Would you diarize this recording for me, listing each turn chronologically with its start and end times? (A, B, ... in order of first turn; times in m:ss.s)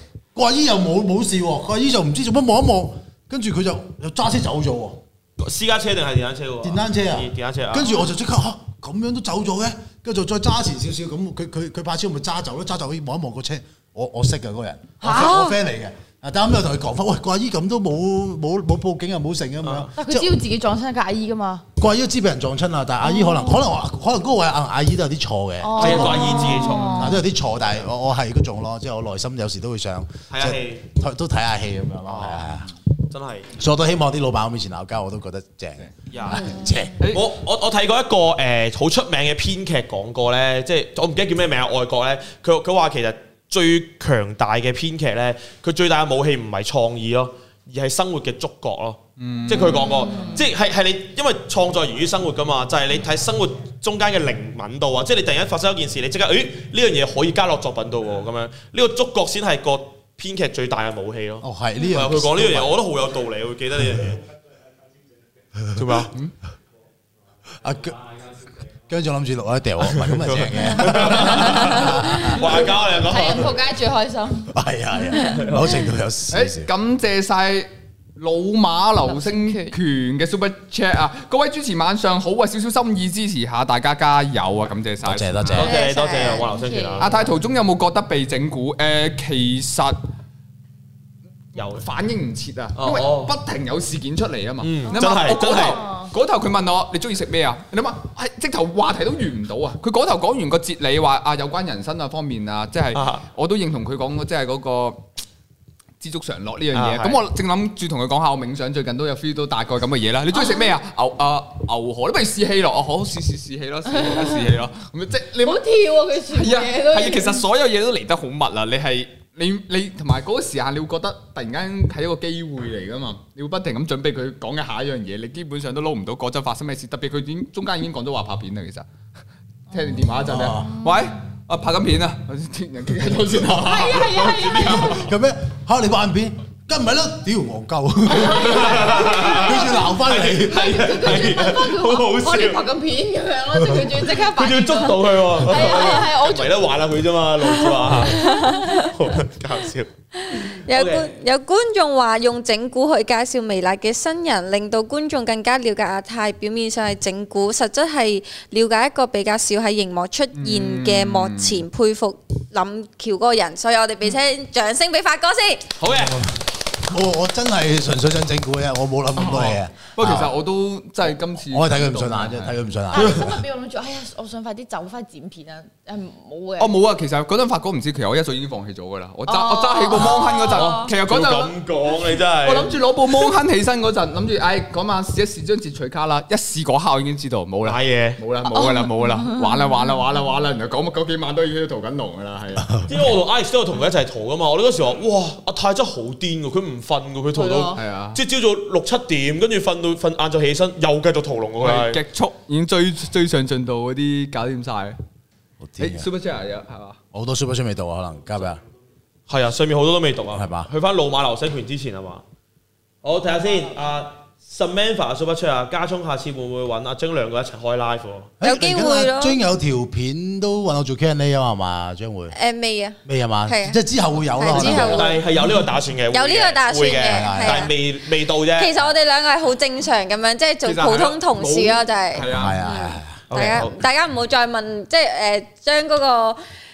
0:00.4-0:05.0 A
0:05.4-0:08.0 B
0:06.6-0:20.4 A
0:15.0-0:15.5 C
0:15.1-0:15.6 D
0:19.6-0:19.9 B
0:20.0-0:21.6 C
0:21.8-0:32.7 A
0:23.0-0:23.6 C
0:25.6-0:27.2 C
0:25.8-0:27.2 B
0:30.3-0:30.9 B
0:32.1-0:32.5 B
0:33.1-0:33.5 B
0:33.5-0:37.0 A
0:36.1-1:04.2 B
0:49.2-0:50.3 E
0:49.5-0:50.4 C
1:01.4-1:02.8 A
1:05.8-1:06.1 B
1:07.6-1:12.4 A
1:09.9-1:13.6 B
1:11.5-1:12.3 C
1:13.0-1:14.5 C
1:14.5-1:16.7 A
1:15.1-1:15.4 C
1:15.3-1:15.8 B
1:16.3-1:25.7 E
1:19.0-1:19.8 C
1:25.0-1:25.7 A
1:25.5-1:27.1 B
1:25.6-1:26.5 D
1:25.7-1:27.3 C
1:27.0-1:30.0 E
1:31.6-1:31.8 B
1:31.6-1:45.1 E
1:32.8-1:33.4 B
1:34.6-1:35.8 B
1:34.9-1:36.1 C
1:42.9-1:43.2 B
1:46.0-1:55.6 E
1:46.7-1:47.2 B
1:54.0-1:54.4 C
1:55.4-1:57.4 C
1:56.3-2:08.9 E
2:09.7-2:14.7 E
2:09.7-2:11.1 C
2:10.3-2:10.7 A
2:13.5-2:15.0 C
2:14.4-2:15.0 B
2:14.7-2:20.9 A
2:18.1-2:19.6 C
2:18.2-2:22.7 B
2:20.4-2:26.6 C
2:24.2-2:29.9 B
2:27.4-2:29.0 D
2:28.1-2:28.8 C
2:30.2-2:45.7 D
2:30.7-2:31.1 B
2:40.3-2:41.7 E
2:45.8-2:46.3 B
2:46.8-2:50.4 A
2:49.2-2:52.6 E
2:51.1-2:53.3 A
2:52.9-2:56.7 C
2:56.6-3:01.5 E
2:59.2-3:00.9 C
3:00.0-3:02.8 B
3:02.4-3:12.8 E
3:07.6-3:08.2 B
3:08.5-3:09.6 C
3:12.9-3:22.0 B
3:17.3-3:17.8 C
3:17.8-3:18.2 E
3:21.6-3:25.0 E
3:25.6-3:26.1 A
3:25.8-3:27.0 E
3:27.1-3:28.6 A
3:29.3-3:32.2 B
3:30.3-3:30.7 A
3:33.0-3:38.3 B
3:38.4-3:42.3 A
3:38.4-3:39.4 D
3:42.3-3:43.8 D
3:43.0-3:45.1 A
3:44.4-3:45.2 D
3:44.5-3:48.8 B
3:46.1-3:47.7 D
3:47.1-3:47.7 A
3:48.6-3:56.4 D
3:50.6-3:52.6 E
3:52.3-3:53.2 A
3:53.3-3:53.8 B